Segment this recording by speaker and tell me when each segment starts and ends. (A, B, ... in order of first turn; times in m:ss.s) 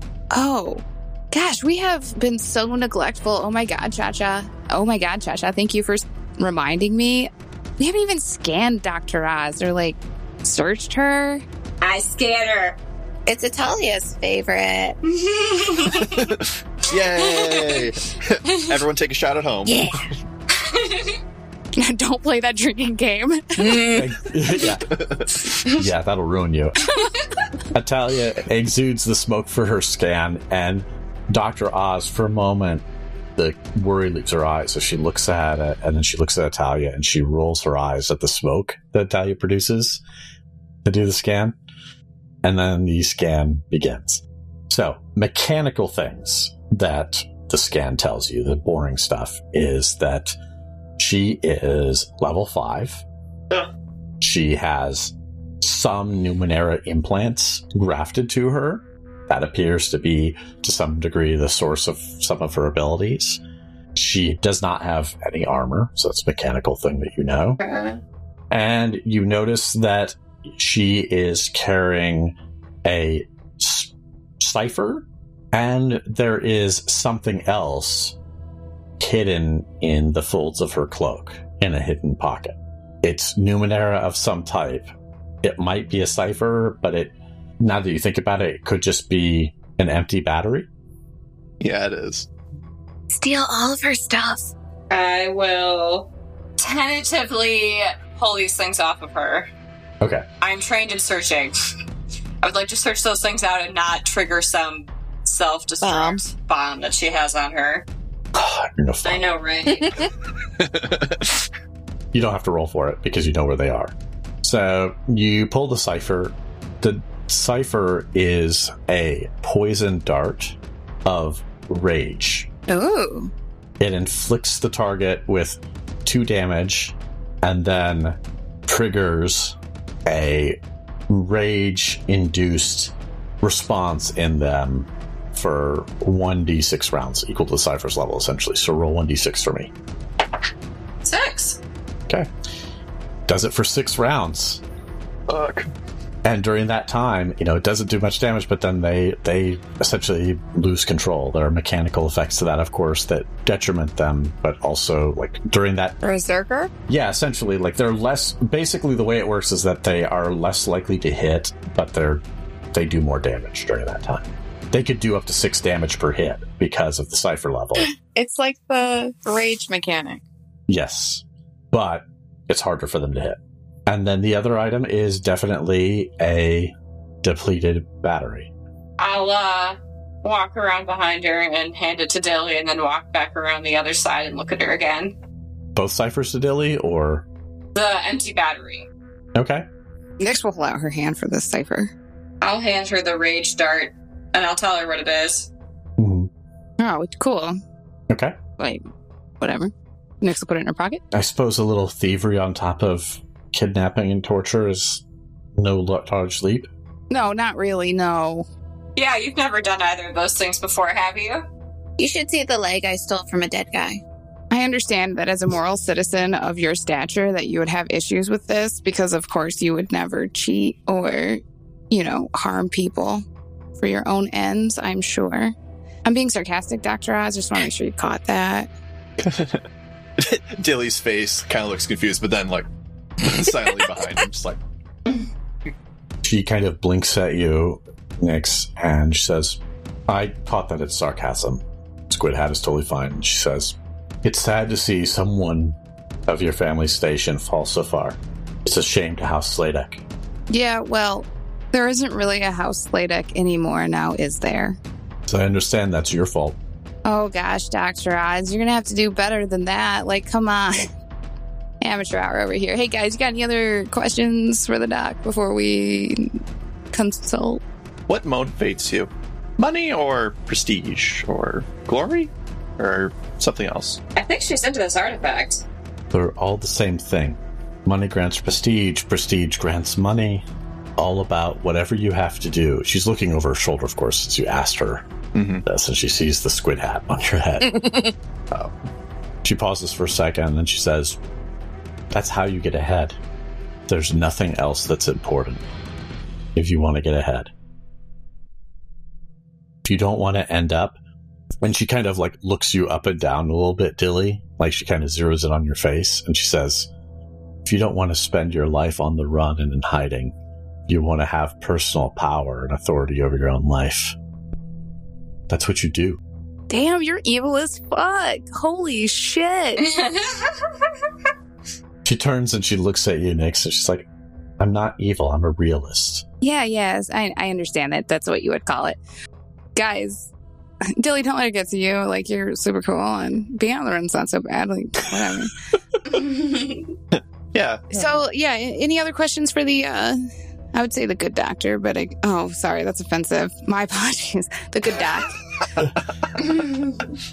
0:00.3-0:11.4 A
0:11.8-0:12.8 B
0:13.3-0:15.0 C
0:15.1-0:16.2 B
0:15.9-0:20.1 D
0:17.2-0:17.9 B
0:19.6-0:20.1 C
0:20.5-0:21.2 B
0:21.8-0:24.0 A
0:23.8-0:25.0 E
0:24.9-0:25.3 D
0:25.6-0:26.9 E
0:27.7-0:40.0 E
0:40.8-0:41.6 E
0:42.4-0:50.4 E
0:51.0-0:53.0 E
0:54.2-1:03.4 E
1:03.9-1:07.6 E
1:07.6-1:08.0 C
1:08.5-1:18.2 E
1:19.0-1:24.9 E
1:25.4-1:30.7 E
1:31.6-1:32.3 D
1:33.1-1:34.5 C
1:34.9-1:39.5 B
1:40.4-1:41.5 B
1:42.4-1:47.8 B
1:45.8-1:46.2 C
1:48.3-1:49.2 E
1:49.0-1:50.1 B
1:50.6-1:51.4 D
1:52.1-2:02.5 E
2:02.7-2:03.3 C
2:03.8-2:19.7 E
2:21.0-2:21.6 B
2:23.3-2:24.6 E
2:25.3-2:25.7 D
2:26.2-2:36.0 E
2:36.0-2:36.7 C
2:36.9-2:47.9 E
2:47.8-2:50.2 C
2:50.7-2:58.5 E
2:59.0-3:05.1 B
3:05.7-3:07.2 E
3:07.7-3:08.9 B
3:09.3-3:09.6 E
3:10.2-3:11.9 A
3:12.4-3:15.5 B
3:16.0-3:16.3 E
3:16.8-3:17.6 A
3:18.1-3:18.4 E
3:19.4-3:21.0 A
3:21.1-3:25.0 E
3:25.5-3:26.7 E
3:27.1-3:28.4 A
3:29.0-3:31.4 B
3:32.0-3:34.0 C
3:34.5-3:43.2 A
3:43.8-3:45.5 A
3:46.0-3:48.7 A
3:49.2-3:49.6 D
3:50.2-3:52.7 D
3:53.2-3:54.6 D
3:56.2-4:10.0 E
4:10.5-4:14.8 A
4:15.3-4:16.6 E
4:17.0-4:20.9 A
4:21.8-4:26.4 A
4:26.9-4:27.6 A
4:28.1-4:34.0 D
4:34.2-4:35.6 B
4:36.1-4:40.4 E
4:41.0-4:45.0 E
4:45.3-4:45.6 D
4:45.6-4:47.9 E
4:49.4-4:51.2 E
4:52.1-4:53.2 E
4:53.9-4:55.6 E
4:56.5-4:57.5 E
4:59.8-5:01.0 E
5:01.6-5:06.9 E
5:07.6-5:10.3 E
5:10.9-5:14.1 E
5:15.5-5:16.2 E
5:16.7-5:19.9 A
5:19.8-5:20.6 B
5:22.0-5:24.0 E
5:24.6-5:26.2 E
5:26.4-5:29.0 A
5:29.7-5:30.3 A
5:30.9-5:35.5 A
5:36.1-5:36.9 B
5:37.1-5:38.1 D
5:37.9-5:40.2 A
5:40.7-5:45.4 A